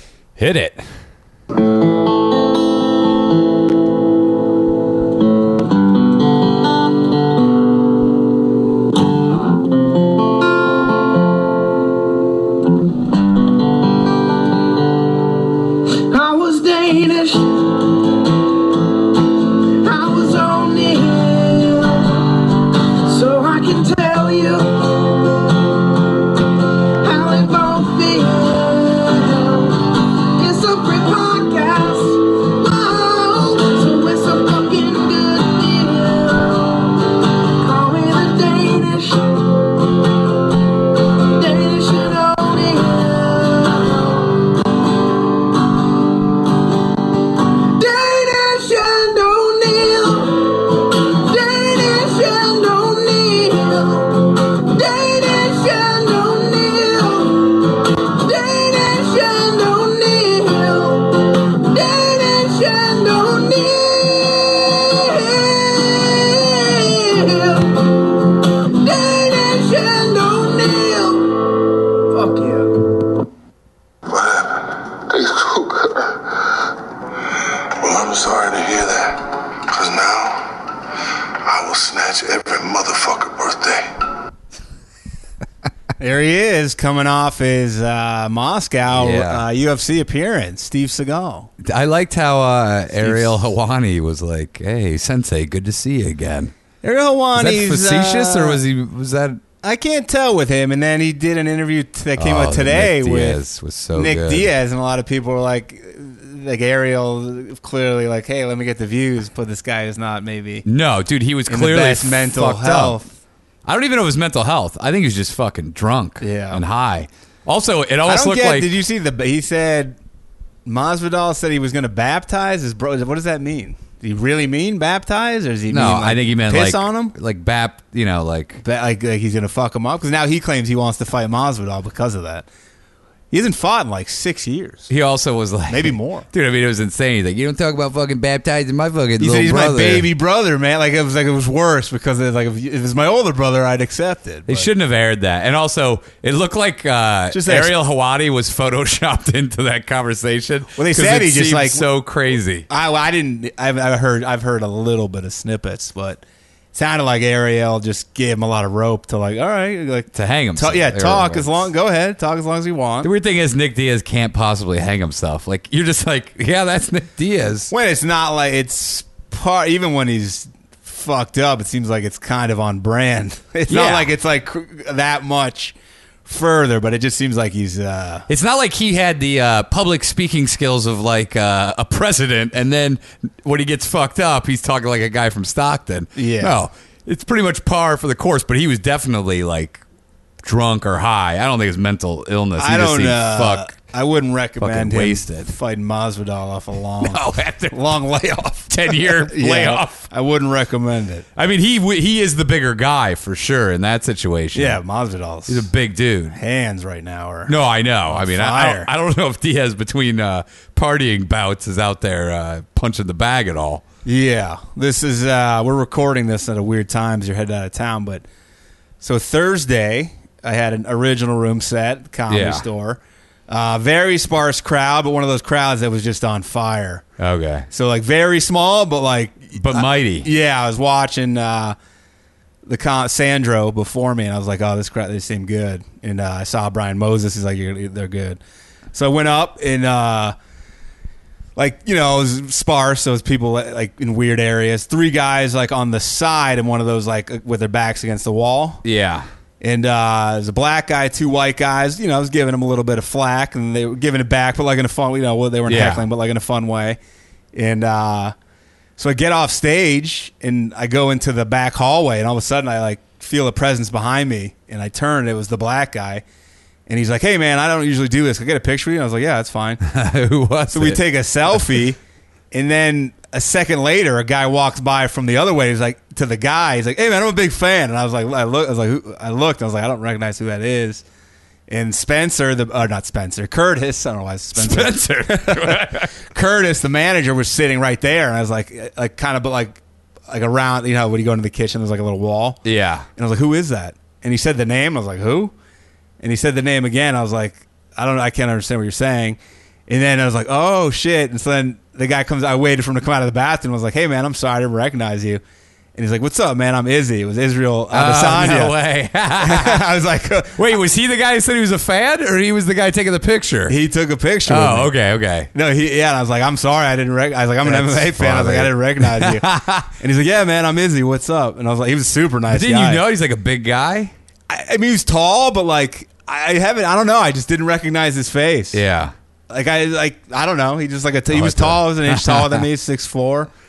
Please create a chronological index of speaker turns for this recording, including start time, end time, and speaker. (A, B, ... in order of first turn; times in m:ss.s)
0:00.4-0:00.8 A
0:15.8-0:18.2 B
0:19.4-0:25.9 B
0:27.0-0:40.2 B
0:41.0-0:44.6 B
0:47.5-1:11.4 B
1:12.1-1:12.8 B
1:14.1-1:16.7 C
1:17.3-1:24.0 C
1:26.0-1:31.5 D
1:28.9-1:29.4 A
1:31.6-1:36.5 A
1:33.0-1:33.5 D
1:36.8-1:38.6 D
1:37.4-1:39.4 A
1:39.6-1:43.4 D
1:42.2-1:44.5 A
1:43.9-1:50.7 D
1:50.6-1:53.0 A
1:51.5-1:53.1 D
1:53.7-1:58.7 A
1:56.2-1:56.6 D
1:58.0-2:00.0 D
2:00.7-2:07.2 D
2:05.7-2:08.6 A
2:08.6-2:12.5 D
2:13.3-2:14.9 D
2:14.9-2:20.1 A
2:15.7-2:16.3 D
2:19.2-2:24.7 D
2:24.5-2:32.7 A
2:27.3-2:27.7 D
2:30.7-2:31.9 D
2:32.7-2:36.2 D
2:36.7-2:43.1 D
2:40.1-2:41.6 A
2:43.0-2:47.7 A
2:47.7-2:55.8 D
2:53.7-2:54.1 A
2:56.3-2:58.3 D
2:58.3-3:09.8 A
3:06.2-3:06.6 D
3:10.4-3:13.7 A
3:12.6-3:21.3 D
3:14.6-3:15.5 A
3:17.0-3:17.8 A
3:18.7-3:20.0 A
3:21.4-3:24.8 A
3:24.6-3:25.7 D
3:25.5-3:26.4 A
3:26.3-3:27.6 D
3:27.5-3:33.8 A
3:28.1-3:28.9 D
3:34.0-3:38.2 D
3:39.0-3:47.0 D
3:42.3-3:42.7 A
3:47.2-3:47.7 A
3:47.7-3:51.8 D
3:49.6-3:50.3 A
3:52.6-3:58.4 D
3:58.9-4:00.4 D
4:01.6-4:08.8 D
4:08.8-4:09.3 A
4:09.6-4:17.0 D
4:15.7-4:16.0 A
4:17.5-4:18.3 D
4:19.0-4:26.2 D
4:26.9-4:29.8 D
4:29.8-4:31.0 A
4:30.7-4:32.0 D
4:32.5-4:41.0 D
4:41.7-4:52.6 D
4:44.6-4:46.2 A
4:52.6-4:53.1 A
4:53.2-4:55.5 D
4:56.2-5:05.4 D
5:06.0-5:08.8 D
5:07.9-5:09.8 A
5:09.4-5:10.7 D
5:10.6-5:13.8 A
5:13.7-5:14.9 D
5:14.5-5:15.5 A
5:15.5-5:23.0 D
5:17.6-5:19.9 A
5:22.5-5:24.1 A
5:24.5-5:28.8 D
5:28.7-5:29.1 A
5:29.5-5:33.5 D
5:31.3-5:32.6 A